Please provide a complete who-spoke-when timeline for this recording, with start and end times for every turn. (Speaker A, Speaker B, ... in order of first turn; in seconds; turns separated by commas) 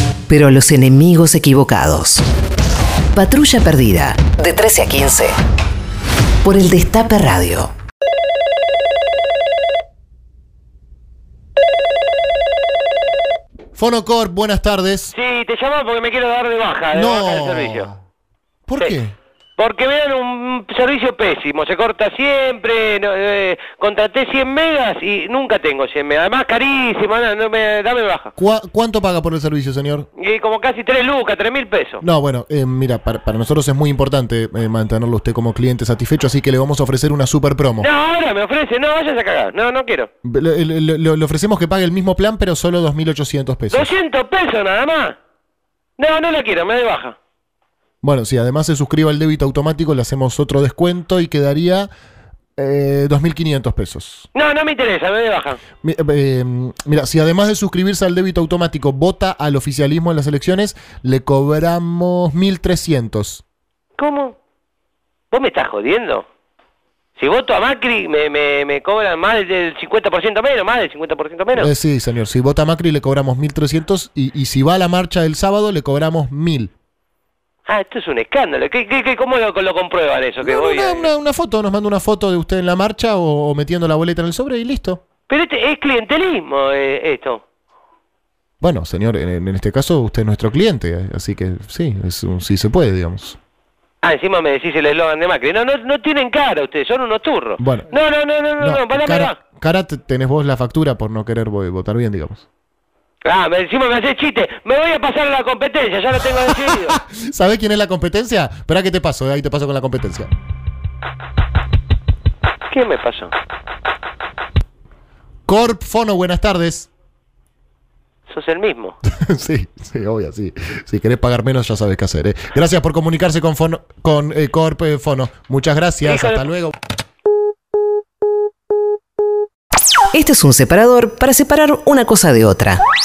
Speaker A: 0.3-2.2, Speaker A: 3.1-5.3, Speaker A: 6.4-7.7, Speaker B: 13.8-15.1, Speaker C: 15.1-17.9, Speaker B: 16.9-18.0, Speaker B: 18.7-19.1, Speaker C: 19.6-28.3, Speaker B: 28.4-30.1, Speaker C: 30.2-32.0, Speaker B: 32.0-37.9, Speaker C: 37.8-40.1, Speaker B: 40.2-43.9, Speaker C: 43.7-45.2, Speaker C: 46.0-47.1, Speaker B: 48.0-51.9, Speaker B: 52.6-54.3, Speaker C: 54.3-55.6, Speaker B: 55.8-63.4, Speaker C: 64.0-64.3, Speaker C: 65.3-66.2, Speaker C: 67.2-71.7, Speaker B: 71.5-76.7, Speaker C: 77.7-81.1, Speaker B: 80.4-85.0, Speaker C: 85.3-87.4, Speaker B: 88.6-93.4, Speaker C: 94.0-99.4, Speaker B: 97.6-97.9, Speaker B: 98.6-102.5, Speaker C: 103.2-107.0, Speaker B: 106.5-110.3, Speaker C: 112.7-113.3, Speaker B: 115.5-116.9, Speaker C: 118.3-119.0, Speaker B: 119.0-126.7, Speaker C: 126.0-126.5, Speaker A: 130.1-132.8